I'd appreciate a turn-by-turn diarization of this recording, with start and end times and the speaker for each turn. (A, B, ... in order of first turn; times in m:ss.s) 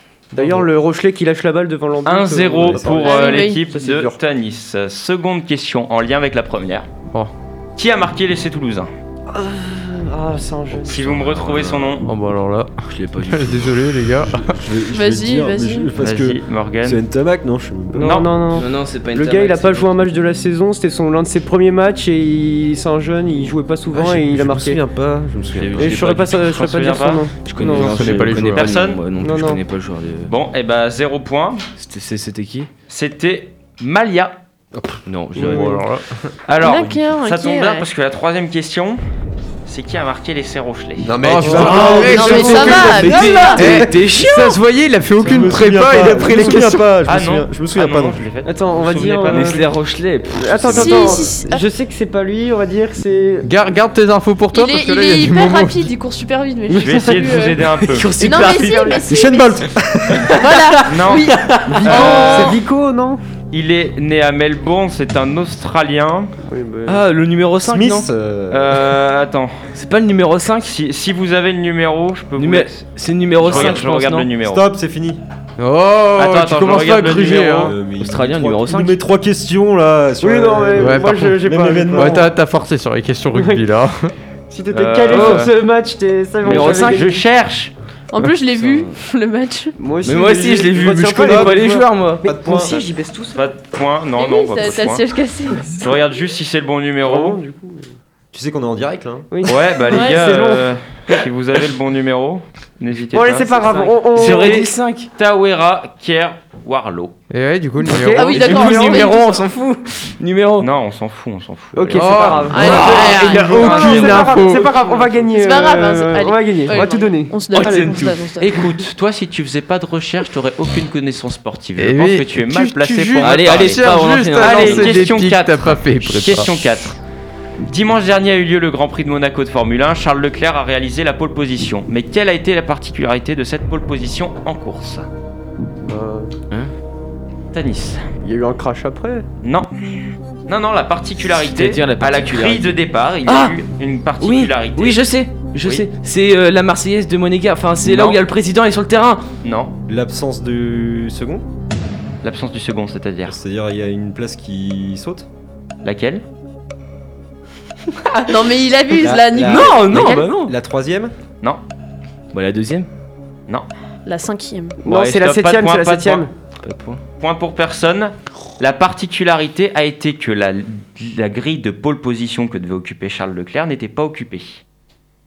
0:00.3-0:04.2 A
0:02.0-0:06.9 B
0:02.6-0:03.1 C
0:03.0-0:03.6 D
0:07.8-0:08.9 B
0:09.3-0:11.2 A
0:10.9-0:12.0 B
0:11.1-0:12.0 E
0:12.0-0:14.6 F
0:12.8-0:14.2 E
0:14.3-0:18.2 C
0:14.9-0:15.9 D
0:16.0-0:17.0 B
0:17.9-0:24.8 A
0:18.0-0:18.3 B
0:18.5-0:19.9 E
0:23.9-0:25.9 C
0:25.5-0:26.4 E
0:25.8-0:28.1 A
0:25.8-0:27.3 B
0:27.4-0:30.3 E
0:27.6-0:28.7 F
0:28.3-0:29.0 B
0:29.2-0:29.6 A
0:30.3-0:31.6 B
0:31.8-0:32.7 E
0:32.9-0:34.4 B
0:34.7-0:35.6 C
0:35.0-0:35.9 E
0:35.4-0:36.1 F
0:36.5-0:39.0 B
0:36.6-0:37.9 D
0:39.6-0:41.2 B
0:41.0-0:43.9 C
0:41.2-0:46.9 F
0:41.4-0:43.0 A
0:41.6-0:44.6 E
0:42.0-0:43.6 D
0:45.2-0:48.2 C
0:47.0-0:49.6 B
0:48.4-0:49.6 A
0:49.2-0:51.3 E
0:50.3-0:53.5 A
0:50.7-0:51.6 D
0:53.4-0:55.9 F
0:54.5-0:57.6 D
0:56.7-0:57.4 A
0:56.8-0:58.2 B
0:57.8-0:59.0 E
0:58.2-0:59.6 D
0:59.1-1:00.4 C
1:00.2-1:02.5 D
1:00.9-1:02.6 B
1:01.4-1:01.8 E
1:01.8-1:03.2 A
1:03.5-1:06.3 B
1:06.5-1:07.0 A
1:06.8-1:08.1 E
1:07.6-1:09.0 C
1:08.5-1:09.6 B
1:09.7-1:10.7 E
1:10.6-1:14.6 B
1:12.4-1:14.3 E
1:13.5-1:13.8 C
1:14.4-1:15.2 C
1:15.6-1:17.8 F
1:16.2-1:17.8 B
1:17.5-1:22.3 C
1:17.9-1:19.0 E
1:20.2-1:22.3 A
1:20.8-1:21.4 F
1:21.9-1:24.1 F
1:23.3-1:23.6 A
1:24.5-1:27.2 A
1:24.7-1:25.5 B
1:25.1-1:25.5 E
1:26.4-1:27.1 E
1:26.4-1:27.7 B
1:28.1-1:29.7 D
1:28.5-1:28.9 E
1:29.8-1:33.4 A
1:30.0-1:32.2 E
1:31.2-1:32.8 C
1:33.3-1:35.0 B
1:34.2-1:35.8 D
1:35.8-1:37.4 B
1:37.0-1:37.9 A
1:38.3-1:39.3 C
1:39.3-1:41.2 A
1:39.4-1:47.1 B
1:39.9-1:40.2 D
1:43.1-1:44.7 A
1:43.6-1:45.1 E
1:47.3-1:48.4 F
1:47.8-1:49.1 A
1:48.0-1:49.4 D
1:48.2-1:50.7 E
1:50.6-1:55.3 B
1:51.7-1:58.0 A
1:51.9-1:54.7 F
1:52.5-1:53.7 D
1:52.6-1:53.4 E
1:55.3-1:58.6 D
1:57.5-2:07.0 B
2:01.8-2:06.7 F
2:03.2-2:05.1 E
2:07.6-2:15.1 B
2:15.8-2:16.3 A
2:17.5-2:18.0 B
2:18.2-2:19.2 A
2:19.4-2:25.0 B
2:21.3-2:23.6 E
2:24.2-2:29.3 E
2:27.8-2:28.2 B
2:29.4-2:29.8 B
2:29.9-2:31.4 C
2:32.2-2:33.4 B
2:33.3-2:35.3 C
2:35.8-2:36.2 B
2:38.2-2:40.2 D
2:39.0-2:41.1 C
2:39.4-2:40.5 E
2:42.3-2:42.9 E
2:44.0-2:44.8 D
2:44.8-2:46.3 A
2:44.8-2:46.2 B
2:46.6-2:47.0 E
2:47.2-2:54.6 B